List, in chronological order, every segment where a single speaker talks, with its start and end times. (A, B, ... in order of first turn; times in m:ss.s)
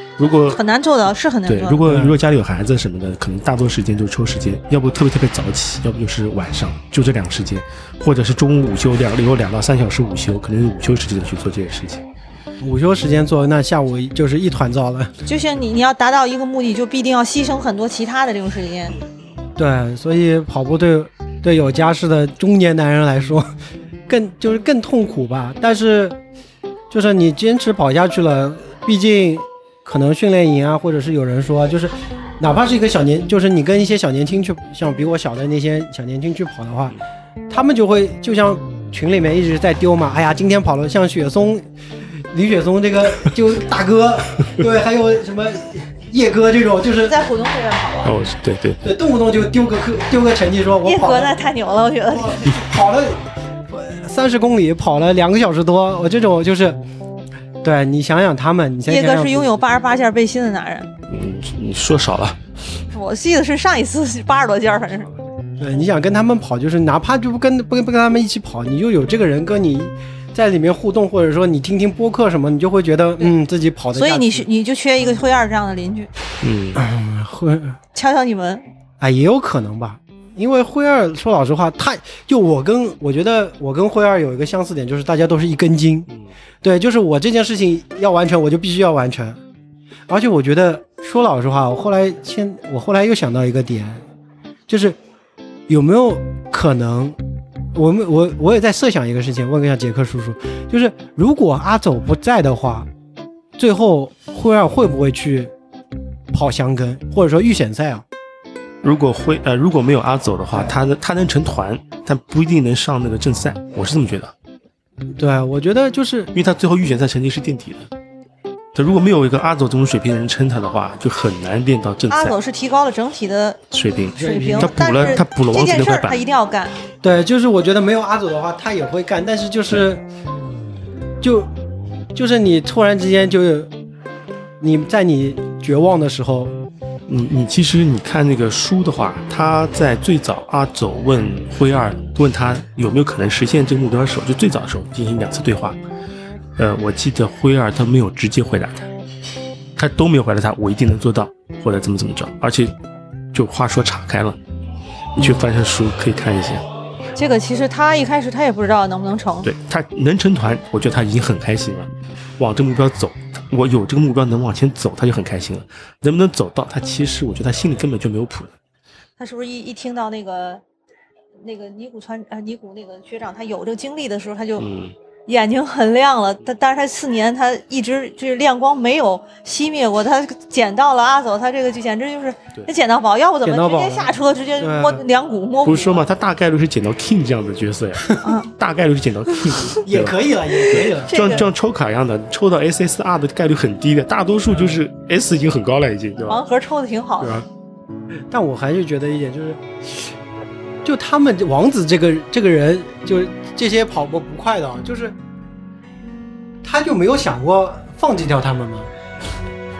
0:00.2-0:00.6 A
0:00.5-0:01.8 B
0:01.5-0:12.0 A
0:01.8-0:02.2 C
0:12.6-0:15.1 C
0:15.2-0:19.0 B
0:19.6-0:23.5 C
0:24.1-0:26.2 C
0:26.9-0:37.0 C
0:37.5-0:41.7 C
0:42.3-0:47.2 C
0:47.0-0:48.2 B
0:48.0-0:48.8 A
0:48.8-0:51.4 C
0:50.8-0:52.4 B
0:52.1-0:56.8 C
0:57.6-0:59.5 C
0:58.9-1:00.9 B
1:01.1-1:02.4 A
1:02.9-1:05.1 B
1:05.6-1:14.4 C
1:13.9-1:16.1 B
1:16.4-1:16.8 A
1:16.7-1:17.8 C
1:17.9-1:18.6 B
1:19.0-1:26.1 C
1:26.6-1:29.4 C
1:30.1-1:34.0 C
1:34.7-1:35.0 C
1:35.7-1:37.2 C
1:37.7-1:42.9 C
1:43.6-1:45.5 C
1:46.3-1:48.0 C
1:48.8-1:54.3 A
1:55.2-1:56.3 C
1:56.3-1:57.9 A
1:58.7-2:02.4 A
2:02.1-2:03.6 B
2:03.7-2:06.2 A
2:04.2-2:05.2 C
2:04.2-2:06.7 B
2:07.0-2:10.0 C
2:11.2-2:11.5 C
2:12.1-2:13.7 C
2:14.6-2:16.5 C
2:17.1-2:25.8 A
2:26.6-2:28.9 A
2:29.8-2:32.7 A
2:33.3-2:34.4 A
2:35.2-2:36.6 A
2:37.1-2:39.5 B
2:39.4-2:48.5 A
2:49.2-2:50.6 B
2:51.4-2:54.7 B
2:54.6-2:54.9 A
2:55.3-3:06.0 B
3:03.4-3:05.0 C
3:05.6-3:16.4 A
3:08.2-3:08.5 B
3:09.8-3:11.4 C
3:11.1-3:11.5 B
3:16.3-3:17.3 B
3:18.3-3:19.6 C
3:20.8-3:25.2 C
3:26.6-3:28.9 C